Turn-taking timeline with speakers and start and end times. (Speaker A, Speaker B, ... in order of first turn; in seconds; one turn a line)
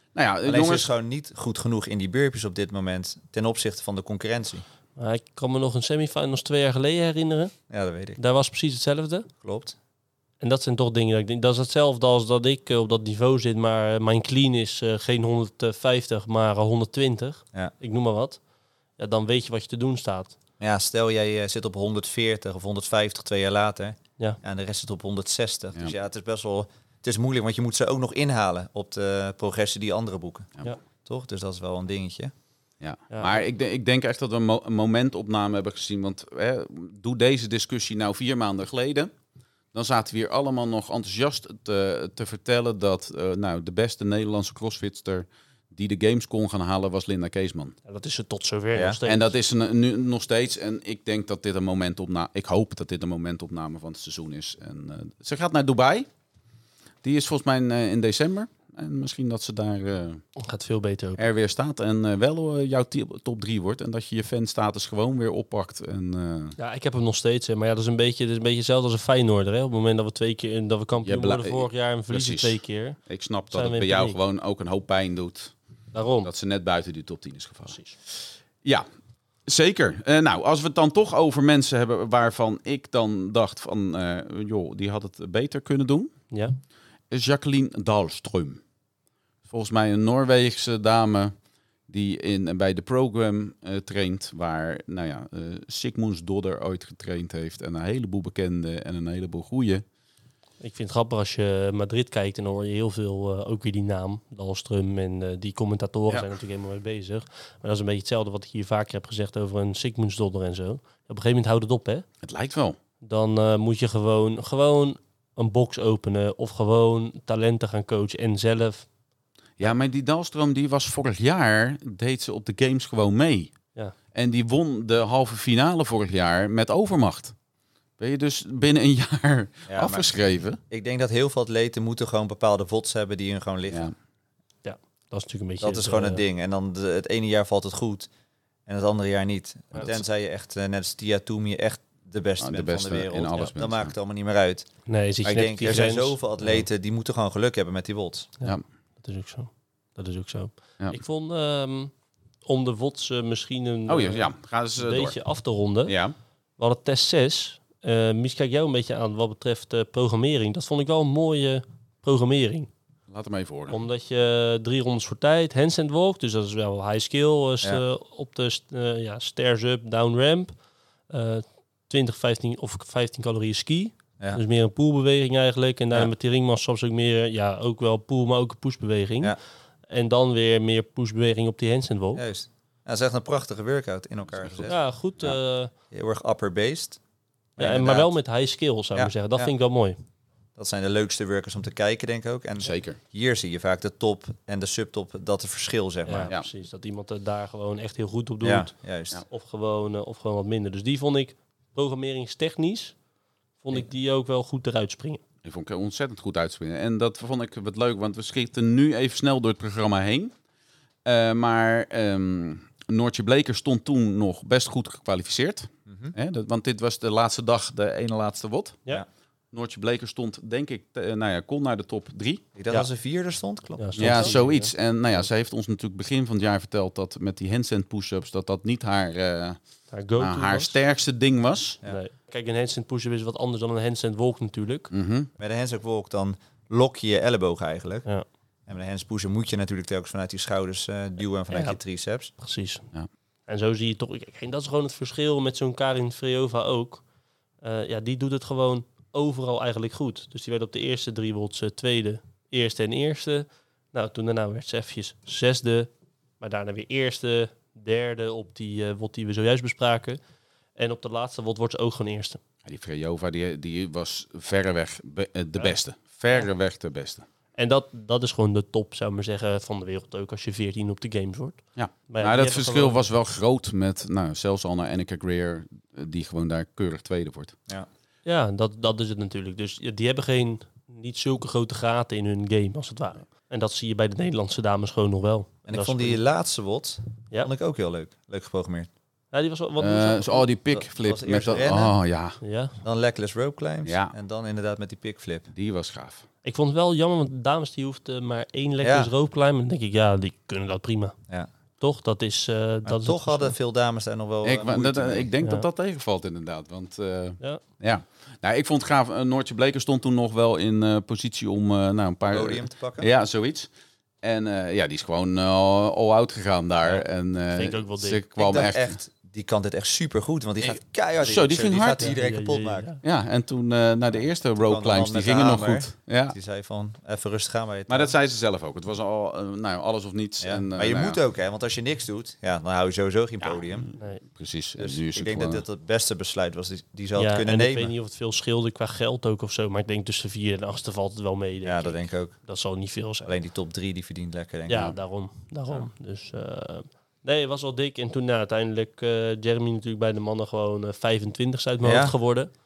Speaker A: 0.1-0.9
Speaker B: 0.4-4.6
Speaker C: 5.0-7.5
Speaker B: 7.7-8.2
Speaker C: 8.2-9.3
Speaker B: 9.4-9.8
Speaker C: 10.4-18.4
Speaker C: 19.0-20.4
Speaker B: 20.6-30.5
Speaker B: 31.1-32.3
Speaker A: 32.8-39.1
Speaker C: 33.1-33.4
Speaker A: 39.7-47.8
Speaker C: 47.9-49.3
Speaker A: 49.0-56.1
Speaker A: 57.0-60.2
Speaker C: 60.4-61.2
Speaker A: 61.2-66.6
Speaker C: 66.6-73.0
Speaker A: 71.0-75.5
Speaker C: 73.5-74.2
Speaker C: 75.9-76.3
Speaker A: 76.2-78.8
Speaker C: 77.7-78.0
Speaker A: 79.5-86.1
Speaker C: 86.3-86.5
Speaker A: 87.1-88.6
Speaker A: 89.5-91.3
Speaker A: 91.9-99.8
Speaker C: 100.6-112.0
Speaker A: 112.2-112.8
Speaker C: 113.0-118.8
Speaker A: 119.6-123.5
Speaker A: 124.1-127.3
Speaker A: 128.0-130.6
Speaker B: 129.7-130.1
Speaker B: 130.7-133.9
Speaker C: 134.6-136.2
Speaker B: 135.6-138.1
Speaker B: 138.7-144.7
Speaker A: 142.4-143.9
Speaker C: 144.9-146.6
Speaker B: 145.2-148.3
Speaker C: 148.4-151.9
Speaker C: 152.4-155.9
Speaker A: 153.9-155.2
Speaker A: 155.9-156.1
Speaker C: 156.6-162.7
Speaker A: 163.1-163.8
Speaker C: 163.7-170.5
Speaker C: 171.1-179.3
Speaker C: 179.9-182.2
Speaker B: 182.2-185.3
Speaker C: 184.7-185.7
Speaker B: 185.9-187.0
Speaker B: 187.6-188.1
Speaker C: 187.6-190.0
Speaker B: 188.9-189.5
Speaker B: 190.6-196.3
Speaker A: 192.6-193.0
Speaker C: 196.0-198.7
Speaker B: 198.4-199.2
Speaker C: 199.3-202.9
Speaker C: 203.6-205.2
Speaker A: 205.4-210.3
Speaker A: 211.0-218.8
Speaker B: 215.9-216.1
Speaker A: 219.5-222.4
Speaker B: 222.5-224.4
Speaker C: 223.8-224.7
Speaker A: 224.0-229.6
Speaker C: 229.9-230.7
Speaker A: 230.2-231.8
Speaker C: 231.8-234.9
Speaker A: 234.9-235.3
Speaker B: 235.4-238.1
Speaker B: 238.7-242.3
Speaker C: 241.5-241.8
Speaker C: 242.4-242.9
Speaker C: 243.5-247.0
Speaker C: 247.6-260.2
Speaker C: 260.8-262.4
Speaker A: 262.6-267.2
Speaker C: 267.6-273.0
Speaker A: 271.8-277.5
Speaker C: 278.2-286.2
Speaker B: 285.7-288.9
Speaker C: 289.3-290.4
Speaker A: 289.8-292.4
Speaker B: 290.7-291.9
Speaker C: 292.4-292.8
Speaker B: 292.8-295.5
Speaker A: 293.8-294.1
Speaker A: 295.5-296.2
Speaker C: 296.4-301.1
Speaker B: 298.8-299.1
Speaker C: 301.8-303.5
Speaker B: 302.8-305.3
Speaker A: 304.4-313.7
Speaker B: 312.3-313.1
Speaker A: 314.2-318.9
Speaker C: 317.5-318.2
Speaker B: 318.4-322.9
Speaker A: 321.2-322.1
Speaker C: 322.0-323.0
Speaker A: 323.0-326.4
Speaker B: 324.6-328.1
Speaker A: 327.9-331.2
Speaker B: 330.4-333.9
Speaker A: 333.4-335.6
Speaker B: 334.8-337.9
Speaker C: 337.1-343.3
Speaker B: 341.6-342.3
Speaker B: 343.2-344.9
Speaker C: 344.7-352.5
Speaker B: 351.8-352.1